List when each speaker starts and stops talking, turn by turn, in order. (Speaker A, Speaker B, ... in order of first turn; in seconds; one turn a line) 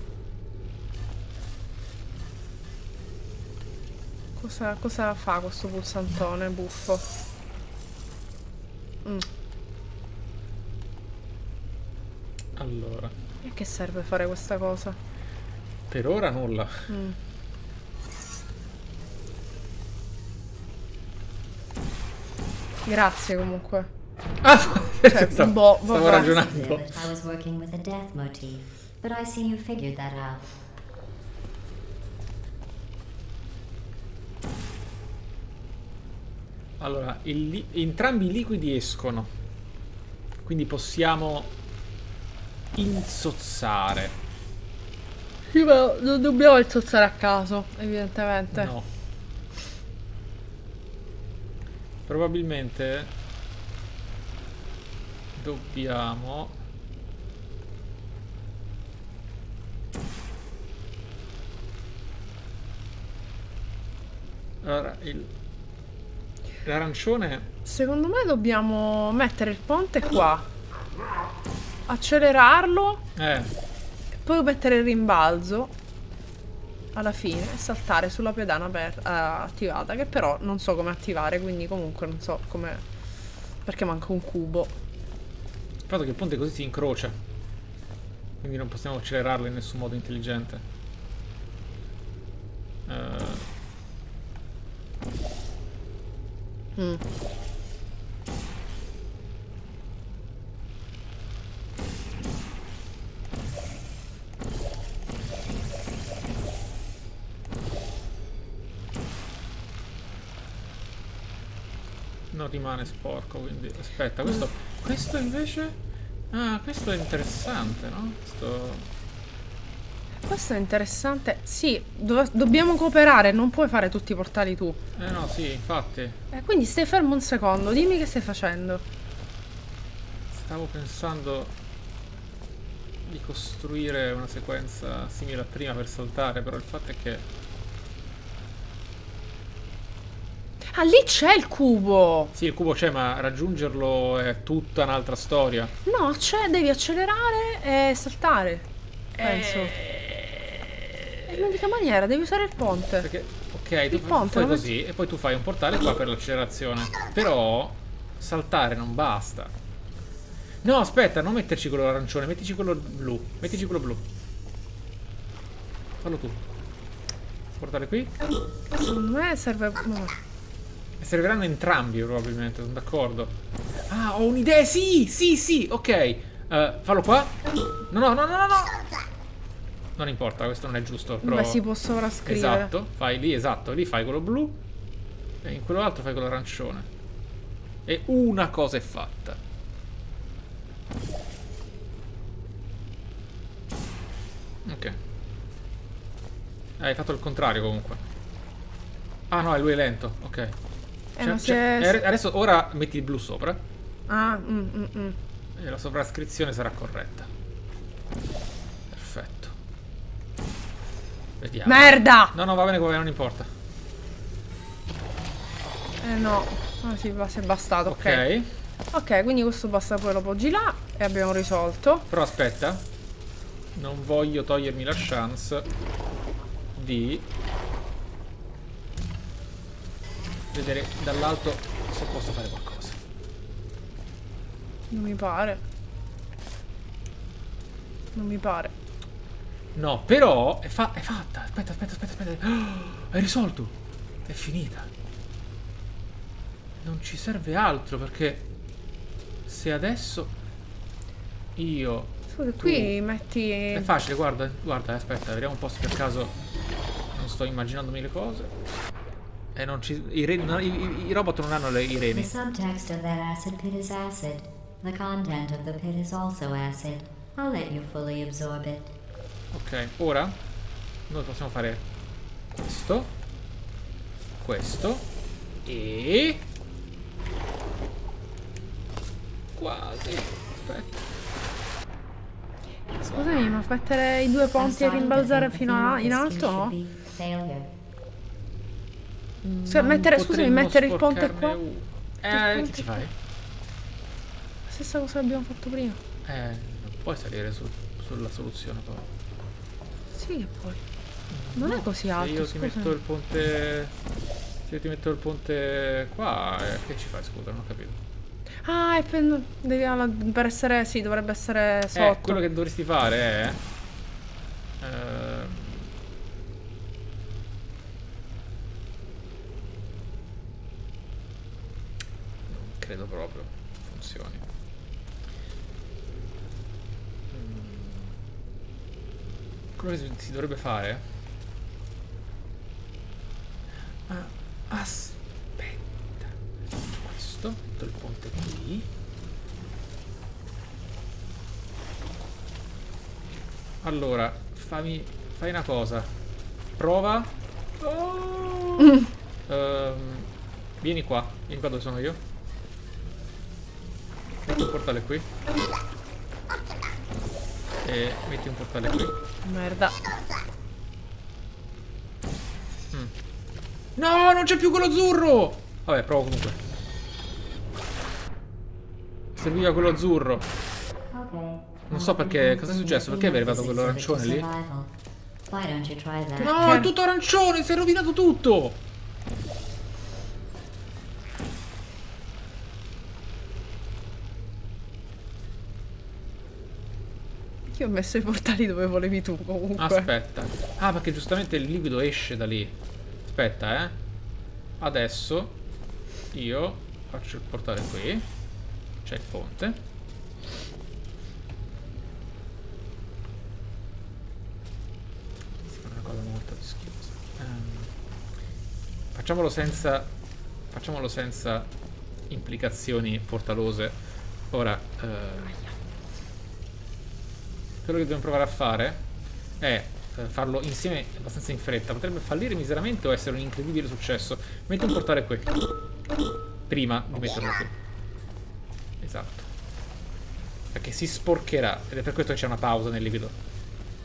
Speaker A: 4.4-7.0
Speaker B: 12.6-13.1
Speaker A: 13.4-15.0
Speaker B: 15.9-16.9
Speaker A: 16.9-17.2
Speaker A: 22.9-23.9
Speaker B: 24.4-26.9
Speaker A: 25.1-26.6
Speaker C: 26.4-30.6
Speaker B: 36.8-39.3
Speaker B: 40.4-41.5
Speaker B: 42.8-44.2
Speaker A: 45.5-48.7
Speaker B: 48.5-48.9
Speaker B: 52.1-53.1
Speaker B: 55.4-56.6
Speaker B: 64.6-65.3
Speaker B: 66.6-67.5
Speaker A: 67.7-70.5
Speaker A: 71.9-73.0
Speaker B: 73.2-73.5
Speaker A: 74.2-75.7
Speaker A: 77.0-82.8
Speaker A: 83.7-84.8
Speaker B: 85.9-87.2
Speaker B: 88.4-90.7
Speaker B: 92.9-93.5
Speaker A: 96.8-97.0
Speaker B: 112.3-115.8
Speaker B: 116.3-118.9
Speaker A: 120.3-124.8
Speaker B: 125.0-126.2
Speaker A: 126.3-128.8
Speaker B: 130.3-131.6
Speaker B: 133.1-137.3
Speaker A: 140.7-142.3
Speaker B: 142.3-145.7
Speaker A: 145.9-149.8
Speaker B: 149.2-151.4
Speaker A: 151.3-153.1
Speaker B: 153.0-159.5
Speaker A: 153.9-154.7
Speaker B: 160.6-164.1
Speaker B: 166.0-166.5
Speaker B: 167.6-168.1
Speaker A: 168.7-170.2
Speaker B: 171.0-173.3
Speaker B: 173.9-177.4
Speaker B: 177.9-178.9
Speaker B: 180.0-181.6
Speaker A: 181.2-182.7
Speaker B: 182.2-184.6
Speaker B: 185.4-186.9
Speaker B: 187.8-189.4
Speaker B: 194.7-195.0
Speaker B: 196.8-198.0
Speaker B: 199.3-200.6
Speaker A: 201.2-202.0
Speaker B: 201.2-203.6
Speaker A: 204.1-205.2
Speaker B: 205.6-207.3
Speaker B: 208.9-209.6
Speaker B: 211.4-213.5
Speaker A: 211.7-212.3
Speaker A: 216.0-218.3
Speaker B: 217.9-218.5
Speaker A: 218.9-222.1
Speaker B: 222.1-222.8
Speaker B: 223.8-225.7
Speaker B: 226.8-227.3
Speaker B: 230.5-233.0
Speaker A: 234.9-235.6
Speaker A: 238.2-238.7
Speaker B: 239.8-243.7
Speaker B: 244.2-244.9
Speaker B: 246.8-248.4
Speaker B: 249.5-250.3
Speaker B: 251.6-252.9
Speaker A: 252.3-253.9
Speaker B: 253.7-256.3
Speaker B: 257.1-258.5
Speaker B: 259.6-262.3
Speaker C: 262.1-268.9
Speaker B: 269.5-270.4
Speaker B: 271.1-271.9
Speaker B: 272.5-273.1
Speaker B: 274.4-275.1
Speaker B: 275.6-276.4
Speaker B: 279.6-281.1
Speaker A: 283.0-286.8
Speaker C: 284.6-287.7
Speaker B: 289.4-293.1
Speaker A: 289.7-291.6
Speaker A: 292.3-293.0
Speaker A: 294.7-296.0
Speaker B: 296.2-299.1
Speaker A: 300.1-300.8
Speaker B: 301.3-303.9
Speaker A: 301.6-302.9
Speaker B: 304.7-308.0
Speaker A: 308.6-312.4
Speaker B: 311.9-313.6
Speaker B: 314.8-315.9
Speaker B: 322.5-324.5
Speaker B: 327.3-328.2
Speaker B: 329.8-331.0
Speaker B: 334.1-338.9
Speaker B: 343.8-346.1
Speaker B: 346.8-352.2
Speaker B: 354.4-355.3
Speaker B: 357.8-359.1
Speaker A: 359.4-360.0
Speaker B: 364.0-366.6
Speaker B: 369.4-370.5
Speaker C: 371.1-374.9
Speaker B: 371.9-374.4
Speaker C: 375.5-376.9
Speaker B: 376.4-378.8
Speaker A: 376.4-376.9
Speaker A: 387.7-390.1
Speaker B: 389.8-394.0
Speaker B: 394.8-395.6
Speaker B: 396.3-398.3
Speaker B: 399.0-399.8
Speaker B: 405.7-407.9
Speaker B: 409.1-410.1
Speaker B: 410.7-411.7
Speaker B: 412.3-414.0
Speaker B: 414.5-415.6
Speaker B: 417.8-419.0
Speaker B: 419.6-425.5
Speaker B: 426.7-427.7
Speaker B: 429.0-429.5
Speaker B: 430.7-433.4